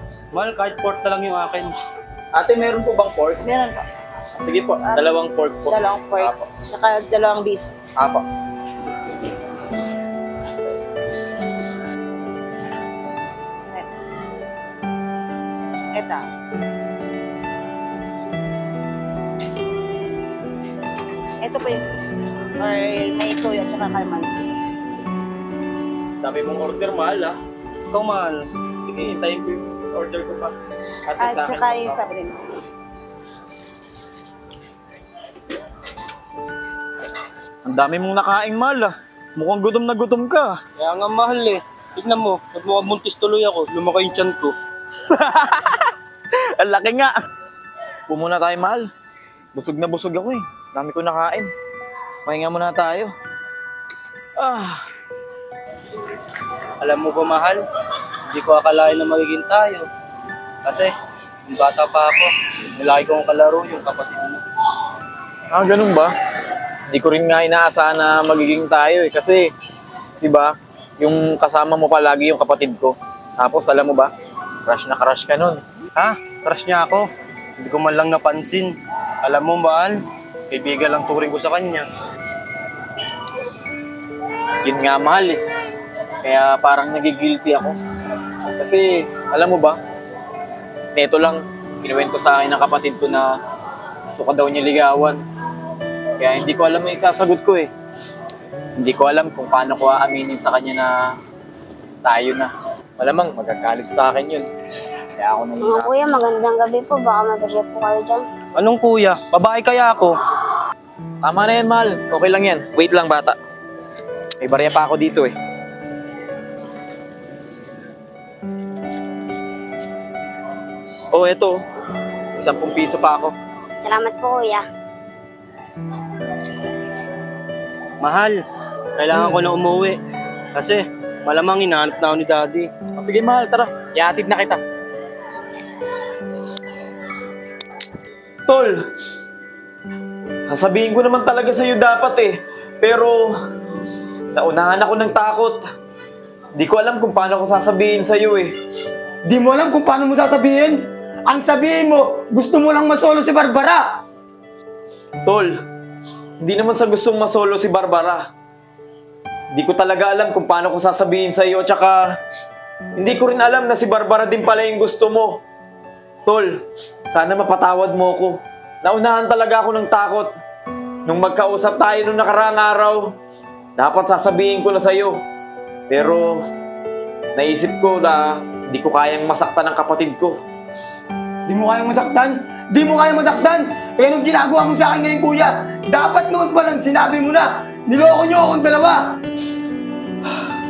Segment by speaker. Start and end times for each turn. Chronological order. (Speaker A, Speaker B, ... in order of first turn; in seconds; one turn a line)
Speaker A: 0.3-1.8
Speaker B: 2.3-3.4
Speaker C: 3.4-3.8
Speaker B: 4.4-6.4
Speaker C: 4.8-5.1
Speaker C: 5.7-7.7
Speaker B: 8.0-8.2
Speaker C: 15.9-16.2
Speaker C: 21.4-24.5
Speaker B: 26.2-27.4
Speaker A: 27.9-28.5
Speaker B: 28.8-32.0
Speaker C: 31.2-32.4
Speaker B: 37.6-40.6
Speaker A: 40.8-44.5
Speaker B: 45.1-45.9
Speaker B: 46.6-47.1
Speaker B: 48.1-48.9
Speaker B: 49.5-51.5
Speaker B: 52.2-53.1
Speaker B: 54.4-54.8
Speaker A: 56.8-57.6
Speaker A: 58.3-59.9
Speaker A: 60.6-60.9
Speaker A: 61.5-64.4
Speaker B: 65.5-66.1
Speaker B: 66.9-69.5
Speaker B: 70.2-74.1
Speaker B: 74.6-75.6
Speaker A: 76.0-77.1
Speaker A: 77.6-81.9
Speaker B: 84.6-85.4
Speaker B: 86.2-87.8
Speaker B: 88.6-89.8
Speaker B: 90.9-93.4
Speaker B: 94.1-95.2
Speaker B: 96.2-97.7
Speaker B: 98.8-101.2
Speaker B: 102.0-104.5
Speaker B: 105.2-105.9
Speaker D: 105.6-108.2
Speaker A: 108.5-110.2
Speaker B: 111.2-113.4
Speaker B: 114.4-115.3
Speaker B: 121.1-121.6
Speaker B: 122.3-123.3
Speaker D: 123.8-124.6
Speaker A: 128.0-128.4
Speaker A: 128.9-130.0
Speaker A: 130.5-132.7
Speaker B: 132.9-134.6
Speaker B: 138.5-138.8
Speaker B: 140.4-143.3
Speaker B: 144.3-145.6
Speaker B: 146.5-148.6
Speaker E: 149.3-153.8
Speaker B: 155.2-155.5
Speaker B: 156.4-158.2
Speaker B: 159.5-162.0
Speaker B: 162.9-165.4
Speaker B: 167.1-170.3
Speaker B: 171.1-173.1
Speaker B: 173.8-175.2
Speaker B: 175.9-176.4
Speaker B: 177.3-180.4
Speaker E: 181.4-189.0